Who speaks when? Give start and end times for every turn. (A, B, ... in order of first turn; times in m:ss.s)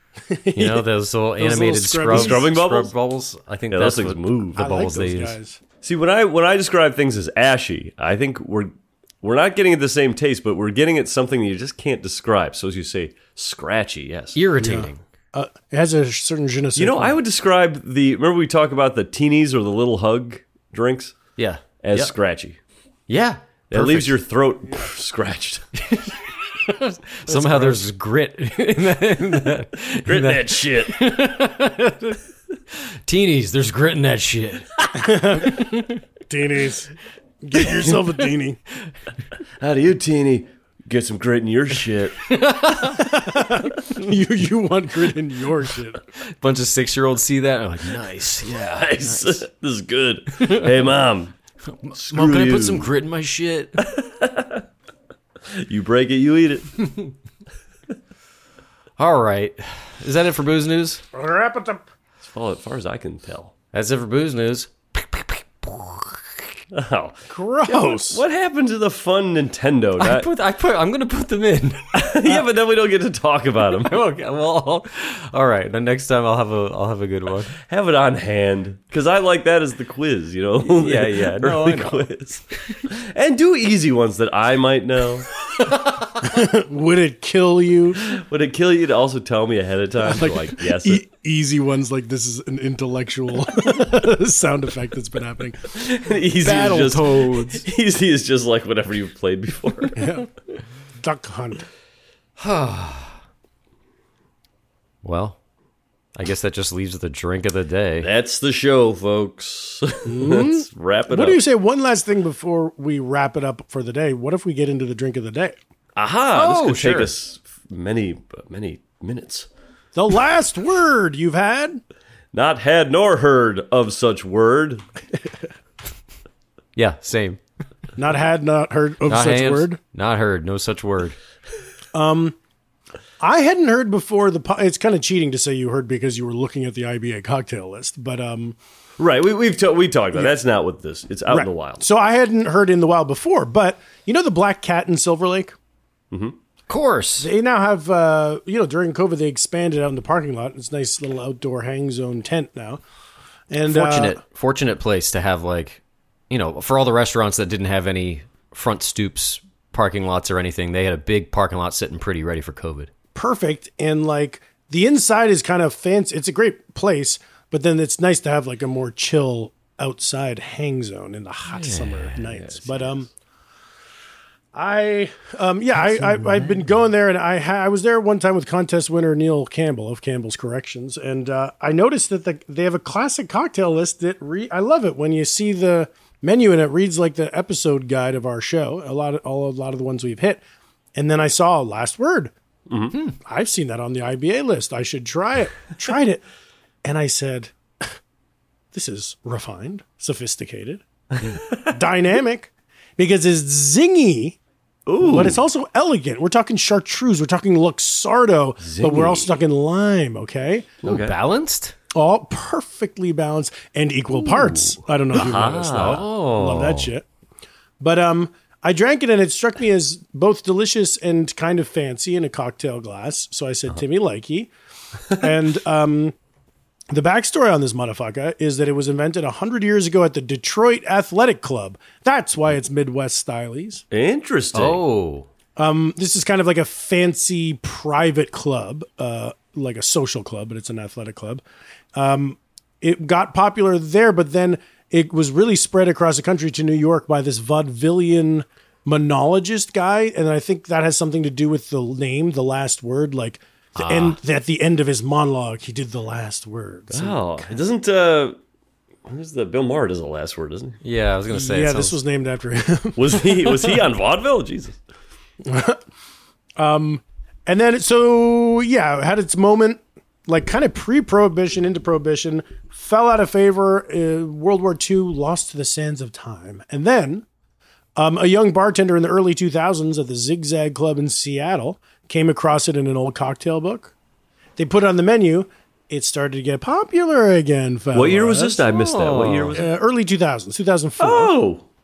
0:00.3-0:00.9 A
0:00.5-0:05.4 B
0:01.4-0:02.5 A
0:02.1-0:02.9 C
0:03.7-0:04.7 C
0:04.6-0:05.6 A
0:05.8-0:14.4 C
0:14.3-0:15.0 B
0:14.6-0:17.2 A
0:16.7-0:21.2 C
0:21.4-0:22.1 B
0:21.8-0:22.6 C
0:23.1-0:24.2 B
0:23.7-0:25.7 C
0:25.8-0:32.2 B
0:27.3-0:27.8 A
0:30.0-0:31.0 C
0:33.0-0:34.7 B
0:35.0-0:35.7 A
0:35.5-0:36.0 B
0:36.3-0:38.6 A
0:39.6-0:42.2 C
0:42.3-0:43.1 B
0:43.0-0:46.0 A
0:46.4-0:49.4 B
0:48.7-0:51.3 C
0:50.4-0:50.7 B
0:51.7-0:53.8 B
0:51.9-0:52.9 C
0:53.8-0:54.6 C
0:55.5-0:56.8 C
0:59.0-1:01.0 B
1:01.1-1:01.8 A
1:02.2-1:03.5 C
1:03.7-1:06.2 B
1:06.7-1:10.3 C
1:07.3-1:08.2 A
1:10.0-1:12.4 B
1:11.9-1:14.0 C
1:13.8-1:17.5 B
1:17.6-1:25.3 C
1:20.6-1:22.1 B
1:26.2-1:28.0 A
1:28.1-1:31.0 C
1:30.0-1:35.8 A
1:35.7-1:40.0 C
1:36.4-1:37.6 B
1:36.4-1:37.0 A
1:40.0-1:40.3 A
1:41.0-1:41.6 A
1:42.4-1:43.2 B
1:45.0-1:45.4 B
1:46.2-1:48.1 B
1:48.0-1:51.4 C
1:50.0-1:55.6 A
1:56.0-1:59.5 C
1:56.3-1:57.1 B
1:59.9-2:01.8 A
2:02.3-2:04.8 C
2:06.8-2:07.4 B
2:08.0-2:09.8 A
2:09.1-2:11.2 B
2:11.9-2:12.4 A
2:13.2-2:18.6 A
2:19.0-2:21.8 C
2:21.3-2:25.6 A
2:26.1-2:26.4 C
2:26.7-2:27.3 B
2:27.2-2:32.8 A
2:33.5-2:34.2 A
2:33.6-2:42.9 B
2:43.1-2:53.1 A
2:51.4-2:52.2 B
2:52.2-2:53.1 C
2:54.5-3:10.4 A
2:56.0-2:56.4 B
3:10.9-3:12.3 A
3:12.7-3:12.9 C
3:13.2-3:16.2 A
3:16.8-3:17.9 A
3:18.7-3:20.8 A
3:21.6-3:24.4 A
3:24.8-3:25.4 C
3:25.0-3:30.7 A
3:28.6-3:29.3 C
3:30.8-3:31.1 C
3:30.8-3:31.7 B
3:31.9-3:37.0 A
3:34.3-3:36.0 C
3:35.7-3:36.9 B
3:37.8-3:44.5 A
3:45.1-3:46.1 A
3:46.9-3:53.8 A
3:53.9-3:54.8 C
3:54.5-3:55.3 B
3:55.6-4:01.4 A
4:01.9-4:17.4 A
4:13.8-4:14.2 B
4:16.9-4:18.4 C
4:19.0-4:20.8 C
4:20.8-4:22.0 B
4:21.3-4:23.8 A
4:23.0-4:24.8 C
4:25.4-4:25.8 A
4:26.6-4:37.2 A
4:38.0-4:43.9 A
4:44.6-4:48.6 A
4:47.9-4:49.7 C
4:48.7-4:49.6 B
4:49.5-4:51.3 A
4:51.0-4:51.6 C